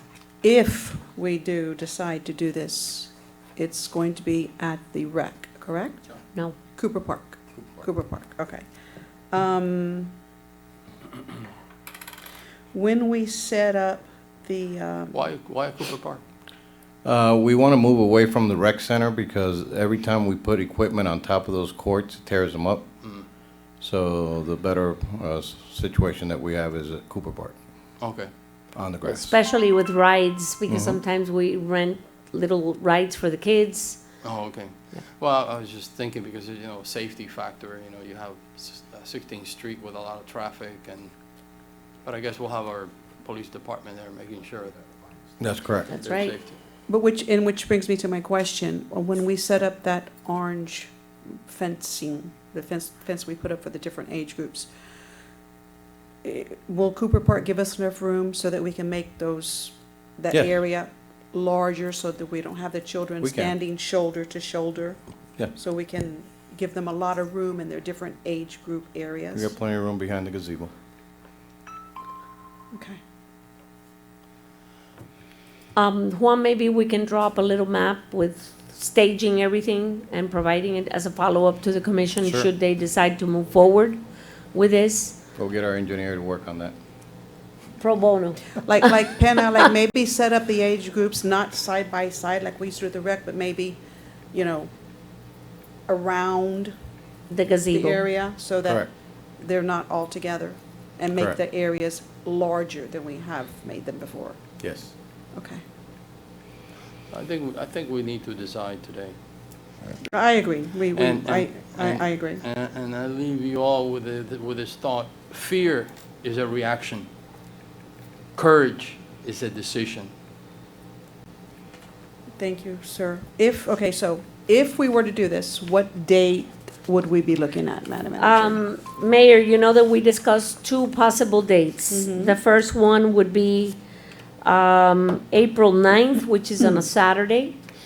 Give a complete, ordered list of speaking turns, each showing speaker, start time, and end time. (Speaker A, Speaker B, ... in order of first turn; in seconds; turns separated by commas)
Speaker A: 0.4-6.0, Speaker A: 6.7-8.7, Speaker A: 9.3-10.1, Speaker A: 12.7-15.2, Speaker B: 15.1-16.2, Speaker C: 17.0-22.8, Speaker C: 23.8-27.6, Speaker B: 28.0-28.3, Speaker C: 28.8-29.3, Speaker D: 29.0-34.0, Speaker C: 30.7-31.0, Speaker B: 34.2-41.1, Speaker B: 42.0-44.8, Speaker C: 45.4-45.9, Speaker D: 45.9-46.4, Speaker B: 46.0-46.5, Speaker A: 46.9-50.9, Speaker A: 51.4-54.7, Speaker A: 56.2-69.5, Speaker C: 60.3-60.6, Speaker C: 63.2-63.5, Speaker C: 69.3-70.7, Speaker A: 72.7-73.0, Speaker D: 75.8-85.2, Speaker C: 82.2-82.5, Speaker C: 85.3-86.7, Speaker D: 87.8-88.9, Speaker A: 88.6-93.8, Speaker A: 94.3-94.7, Speaker A: 95.9-96.7, Speaker D: 97.3-98.1, Speaker A: 97.7-104.4, Speaker C: 104.6-104.9, Speaker A: 105.3-105.6, Speaker B: 107.1-109.1, Speaker A: 110.1-112.4, Speaker B: 110.9-117.1, Speaker B: 118.4-120.1, Speaker A: 122.4-128.6, Speaker D: 128.2-133.8, Speaker A: 131.9-132.4, Speaker D: 134.4-137.6, Speaker A: 136.6-136.8